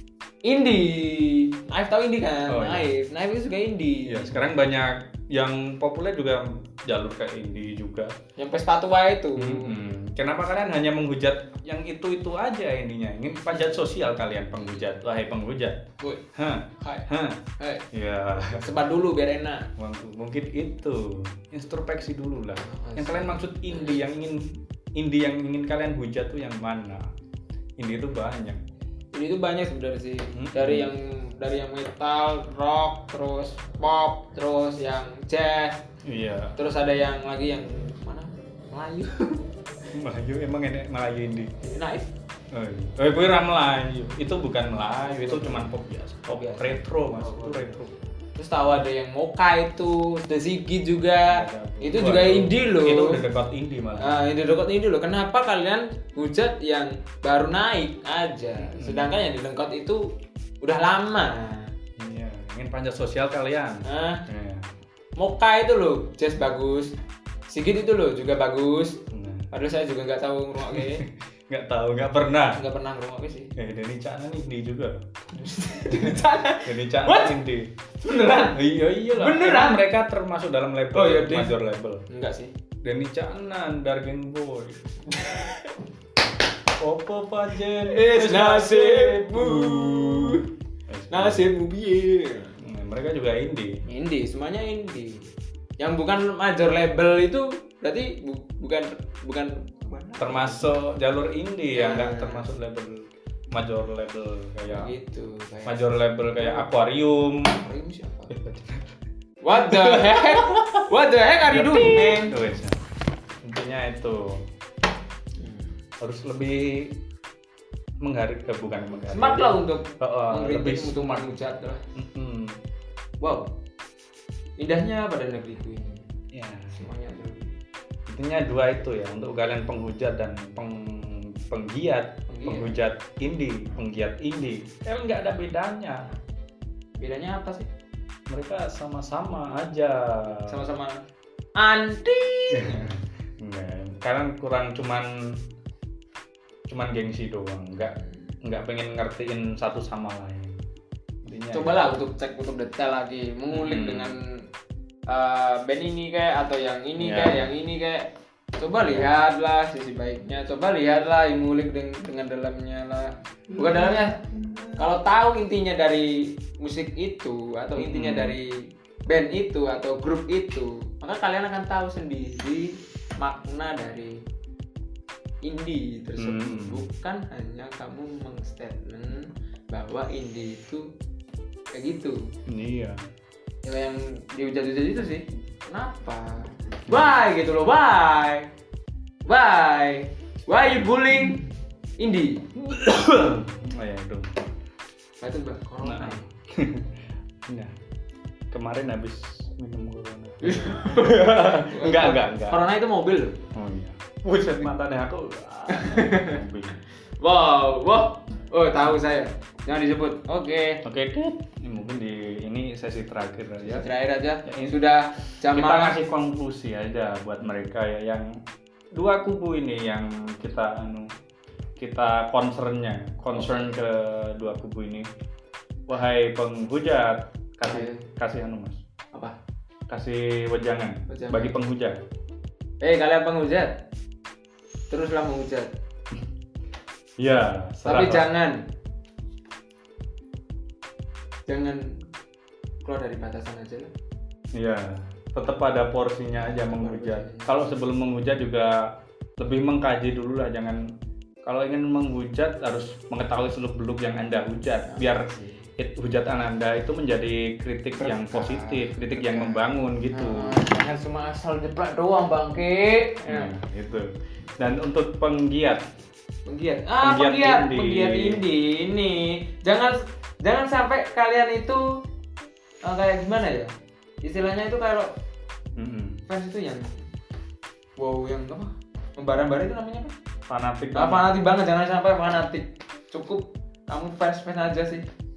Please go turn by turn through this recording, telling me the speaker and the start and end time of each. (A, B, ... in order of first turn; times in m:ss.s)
0:00.4-0:04.4 A
0:02.5-0:02.9 B
0:04.1-0:08.2 B
0:08.4-0:09.7 A
0:09.4-0:15.8 B
0:16.4-0:17.4 B
0:16.8-0:17.9 A
0:17.9-0:18.6 B
0:18.6-0:19.7 A
0:19.8-0:27.1 B
0:22.6-0:24.0 A
0:27.8-0:28.6 B
0:29.1-0:35.8 A
0:30.4-0:30.9 B
0:36.0-0:36.6 B
0:36.6-0:39.4 A
0:39.9-0:41.5 B
0:41.6-0:42.1 A
0:42.5-0:47.9 B
0:45.0-0:45.7 A
0:46.3-0:47.8 A
0:48.4-0:53.2 A
0:51.3-0:54.3 B
0:54.0-1:00.1 A
0:58.6-0:59.2 B
1:00.6-1:01.7 A
1:02.0-1:04.7 B
1:03.8-1:04.2 A
1:05.2-1:06.9 A
1:07.5-1:11.0 A
1:09.1-1:09.5 B
1:10.7-1:12.6 B
1:12.5-1:13.5 A
1:13.6-1:15.0 B
1:15.3-1:17.4 A
1:15.9-1:17.7 B
1:18.0-1:18.6 A
1:18.6-1:22.0 B
1:19.1-1:19.8 A
1:20.9-1:21.6 A
1:22.1-1:22.5 A
1:22.8-1:24.8 B
1:25.1-1:25.7 A
1:26.8-1:31.4 B
1:27.9-1:30.5 A
1:31.1-1:32.6 A
1:32.6-1:33.8 B
1:33.9-1:35.3 A
1:35.8-1:40.7 A
1:40.2-1:45.0 B
1:41.7-1:42.5 A
1:44.7-1:46.7 A
1:45.7-1:47.6 B
1:47.5-1:48.4 A
1:48.3-1:49.0 B
1:49.4-1:52.4 A
1:49.6-1:50.8 B
1:51.5-1:52.8 B
1:53.4-1:54.4 B
1:55.4-1:55.7 A
1:56.0-1:57.0 B
1:58.0-2:01.4 B
1:59.1-2:01.8 A
2:02.0-2:02.6 B
2:03.2-2:03.5 A
2:04.6-2:06.1 A
2:06.3-2:06.8 B
2:06.7-2:07.6 A
2:08.1-2:16.1 B
2:12.3-2:12.8 A
2:17.0-2:17.7 A
2:18.3-2:20.6 B
2:20.3-2:21.0 A
2:21.6-2:23.0 A
2:22.5-2:25.4 B
2:26.7-2:30.6 B
2:31.2-2:31.9 B
2:31.5-2:34.4 A
2:33.5-2:34.2 B
2:35.1-2:44.2 A
2:37.0-2:37.4 B
2:38.8-2:39.1 B
2:44.8-2:54.2 A
2:47.8-2:48.4 B
2:55.4-3:00.9 A
2:56.2-2:56.8 B
3:01.7-3:02.3 A
3:02.5-3:03.0 B
3:03.6-3:08.5 A
3:09.3-3:11.5 A
3:12.0-3:12.5 A
3:12.6-3:14.4 B
3:15.2-3:16.2 A
3:15.8-3:17.7 B
3:18.5-3:22.7 B
3:20.4-3:23.4 A
3:23.5-3:26.8 B
3:25.7-3:26.4 A
3:27.2-3:30.8 A
3:30.8-3:33.9 B
3:33.6-3:36.0 A
3:34.4-3:34.8 B
3:35.5-3:38.3 B
3:38.9-3:41.1 B
3:41.8-3:45.1 B
3:43.3-3:43.7 A
3:45.9-3:48.8 B
3:47.7-3:48.0 A
3:49.9-3:52.0 B
3:51.1-3:51.6 A
3:52.8-3:53.8 A
3:54.9-3:55.7 A
3:57.2-3:58.3 B
3:57.8-3:58.6 A
4:01.5-4:02.0 A
4:02.8-4:03.9 A
4:04.5-4:10.8 B
4:06.4-4:07.7 A
4:11.4-4:20.6 B
4:14.9-4:15.7 A
4:18.0-4:23.5 A
4:23.3-4:25.8 B
4:26.5-4:31.8 A
4:27.0-4:28.4 B
4:32.8-4:33.7 A
4:34.2-4:35.1 A
4:35.8-4:36.2 B
4:36.3-4:37.0 A
4:38.0-4:40.1 A
4:40.5-4:41.3 B
4:40.9-4:45.0 A